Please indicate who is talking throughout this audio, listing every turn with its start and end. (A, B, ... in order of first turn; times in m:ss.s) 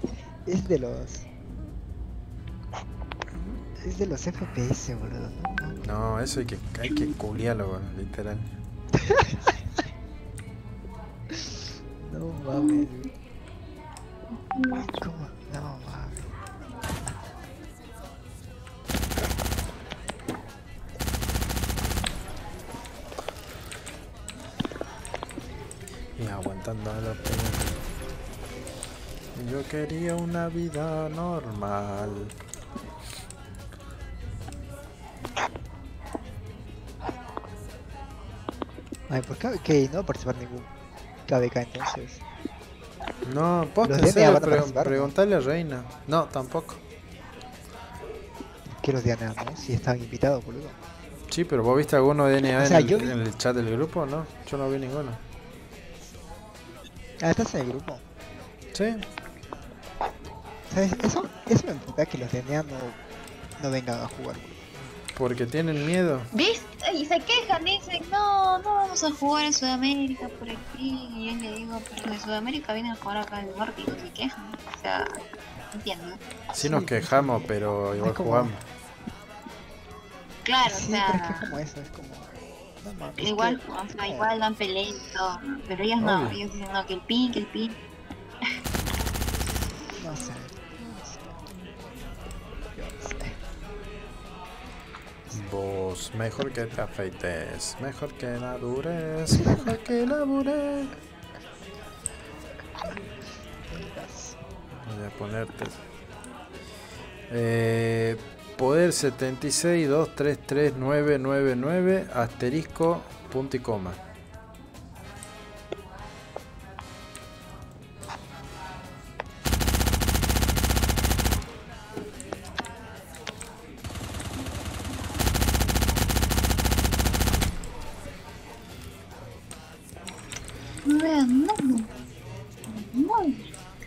0:00.5-0:01.2 A
0:03.8-0:05.8 A
0:05.8-0:08.5 B
0:08.9-0:09.8 A
0:11.3-0:13.1 A
0:14.5-0:14.9 C
0:14.8-0:16.3 A
0:26.2-0:27.8 B
0:29.3-0:32.4 B
0:39.1-0:40.7 A
0:41.3-0:42.2 A
0:43.2-0:46.8 B
0:43.8-0:45.1 A
0:48.8-0:50.8 A
0:51.3-0:55.2 B
0:52.6-0:53.2 A
0:57.2-0:58.0 A
0:58.7-0:59.1 B
1:00.7-1:03.0 A
1:03.6-1:04.6 A
1:05.1-1:06.3 B
1:06.3-1:15.2 C
1:15.7-1:16.2 C
1:16.5-1:18.6 B
1:16.6-1:18.5 A
1:20.4-1:21.5 C
1:20.6-1:24.4 A
1:23.2-1:27.8 C
1:26.0-1:26.4 B
1:30.0-1:31.5 A
1:32.8-1:33.4 A
1:35.3-1:41.0 B
1:43.6-1:44.4 A
1:44.8-1:45.8 B
1:47.3-1:54.0 B
2:10.9-2:11.9 C
2:12.7-2:13.5 C